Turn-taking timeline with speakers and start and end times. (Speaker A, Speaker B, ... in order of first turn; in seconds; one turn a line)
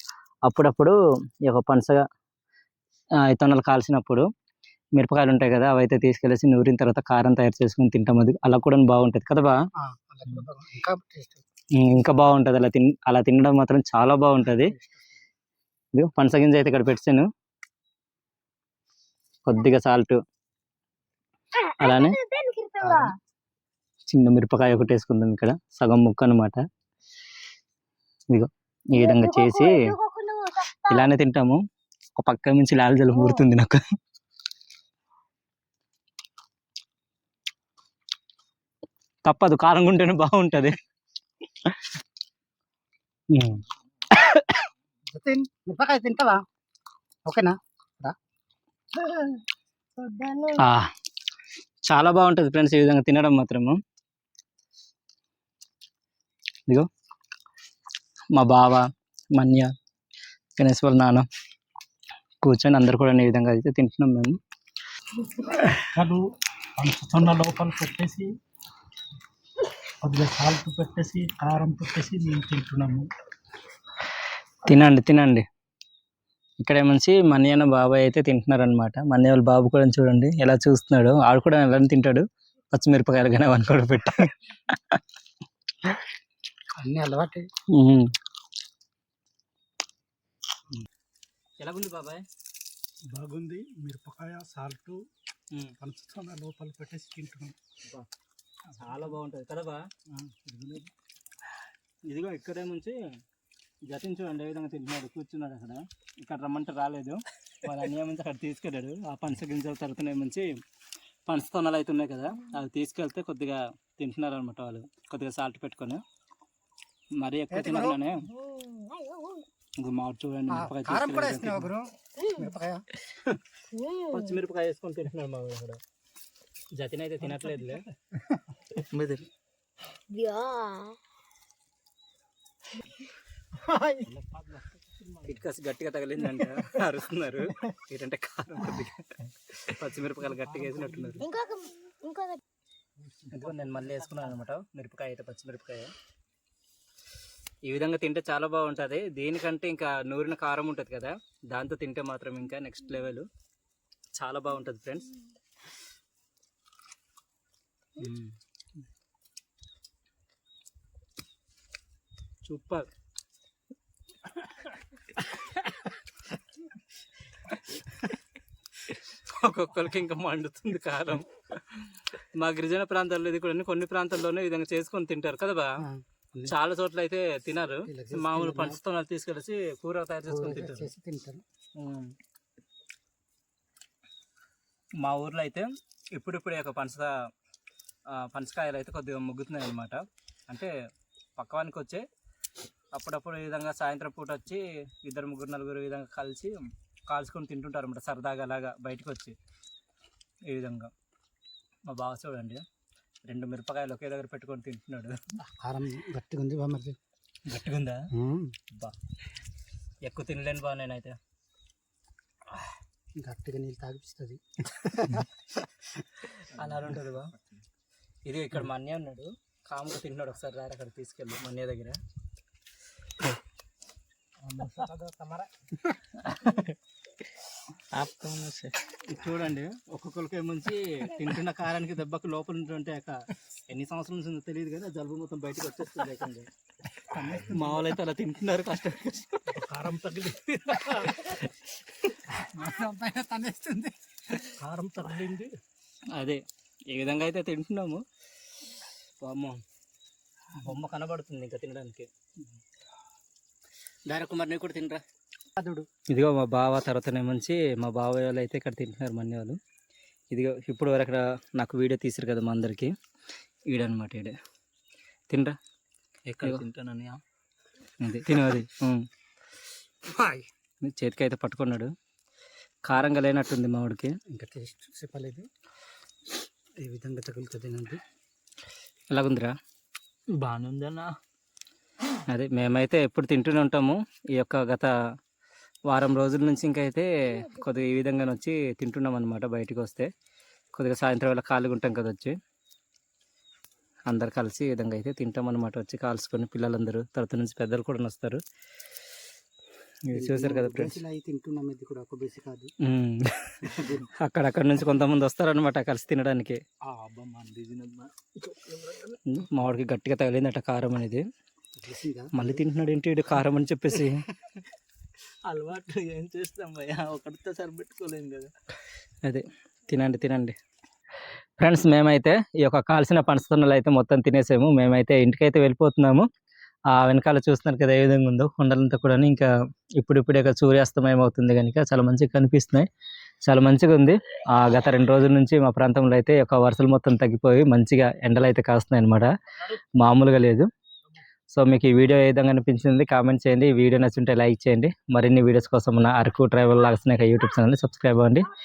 Speaker A: 0.5-2.0
Speaker A: 3.2-4.2
Speaker A: 5.0-9.6
Speaker B: 9.8-11.4
Speaker A: 11.8-14.7
Speaker B: 14.6-15.2
Speaker A: 15.9-17.3
Speaker A: 19.4-20.2
Speaker C: 21.6-23.1
Speaker A: 21.8-22.2
Speaker A: 24.1-26.6
Speaker A: 28.3-29.9
Speaker C: 28.9-31.1
Speaker A: 30.9-31.6
Speaker A: 32.1-33.8
Speaker A: 39.2-40.8
Speaker A: 43.3-44.7
Speaker B: 45.1-46.4
Speaker B: 47.3-48.1
Speaker A: 50.5-50.9
Speaker A: 51.9-53.8
Speaker A: 58.3-59.7
Speaker A: 60.6-61.3
Speaker A: 62.4-64.4
Speaker B: 65.5-66.2
Speaker B: 66.8-68.3
Speaker B: 70.0-73.1
Speaker A: 74.7-75.5
Speaker A: 76.6-85.0
Speaker B: 86.8-87.5
Speaker A: 87.7-88.1
Speaker A: 91.6-92.2
Speaker B: 93.1-95.0
Speaker B: 95.8-97.5
Speaker A: 98.7-99.9
Speaker B: 100.1-100.9
Speaker A: 102.1-103.0
Speaker A: 103.9-110.6
Speaker A: 111.3-116.0
Speaker A: 117.2-118.3
Speaker B: 117.5-118.0
Speaker C: 118.3-119.5
Speaker A: 119.8-121.7
Speaker B: 120.5-122.9
Speaker C: 122.2-122.5
Speaker A: 123.1-123.4
Speaker C: 123.7-124.3
Speaker A: 124.1-125.8
Speaker A: 126.7-127.9
Speaker A: 128.8-129.2
Speaker C: 130.1-131.0
Speaker B: 133.6-134.4
Speaker A: 135.2-141.3
Speaker B: 140.6-141.1
Speaker C: 141.2-142.4
Speaker B: 143.2-144.0
Speaker A: 143.3-145.9
Speaker A: 147.7-153.3
Speaker A: 154.2-155.1
Speaker A: 158.0-158.3
Speaker A: 162.4-162.9
Speaker A: 168.8-175.8
Speaker B: 175.8-176.5
Speaker A: 176.4-180.9
Speaker B: 177.8-178.8
Speaker B: 180.3-181.4
Speaker A: 181.8-182.1
Speaker A: 185.0-187.1
Speaker A: 188.1-190.7
Speaker A: 191.4-192.0
Speaker A: 192.9-199.4
Speaker A: 200.5-200.9
Speaker A: 201.9-202.6
Speaker A: 203.3-205.3
Speaker B: 205.4-207.0
Speaker A: 207.5-208.1
Speaker B: 208.1-208.6
Speaker A: 210.0-211.2
Speaker B: 213.2-215.3
Speaker A: 216.2-217.3
Speaker A: 218.2-222.0
Speaker B: 224.5-225.5
Speaker A: 226.2-226.7
Speaker A: 227.9-236.5
Speaker B: 237.1-237.8
Speaker A: 237.3-239.6
Speaker B: 239.5-241.2
Speaker A: 240.7-241.5
Speaker B: 242.3-245.5
Speaker A: 246.1-248.0
Speaker A: 249.2-249.6
Speaker A: 250.5-252.1
Speaker A: 254.1-255.0
Speaker B: 255.6-255.9
Speaker A: 256.1-259.6
Speaker A: 260.3-262.9
Speaker A: 263.7-264.4
Speaker A: 265.3-265.6
Speaker A: 266.4-267.2
Speaker A: 268.0-269.1
Speaker B: 270.1-270.4
Speaker A: 270.8-271.9
Speaker A: 272.9-274.1
Speaker B: 274.3-275.5
Speaker B: 276.8-278.0
Speaker A: 279.1-279.5
Speaker A: 280.4-281.1
Speaker A: 282.3-284.9
Speaker A: 285.9-290.1
Speaker A: 290.7-292.4
Speaker A: 294.1-298.4
Speaker A: 300.1-301.0
Speaker B: 300.1-302.7
Speaker A: 302.8-306.6
Speaker B: 303.6-304.1
Speaker B: 308.6-309.1
Speaker A: 309.2-311.3
Speaker B: 311.8-312.6
Speaker A: 312.3-314.3
Speaker A: 315.5-318.5
Speaker A: 319.2-320.6
Speaker A: 321.6-326.3
Speaker A: 326.9-332.9
Speaker A: 333.4-339.3
Speaker A: 340.0-340.7
Speaker A: 341.5-348.5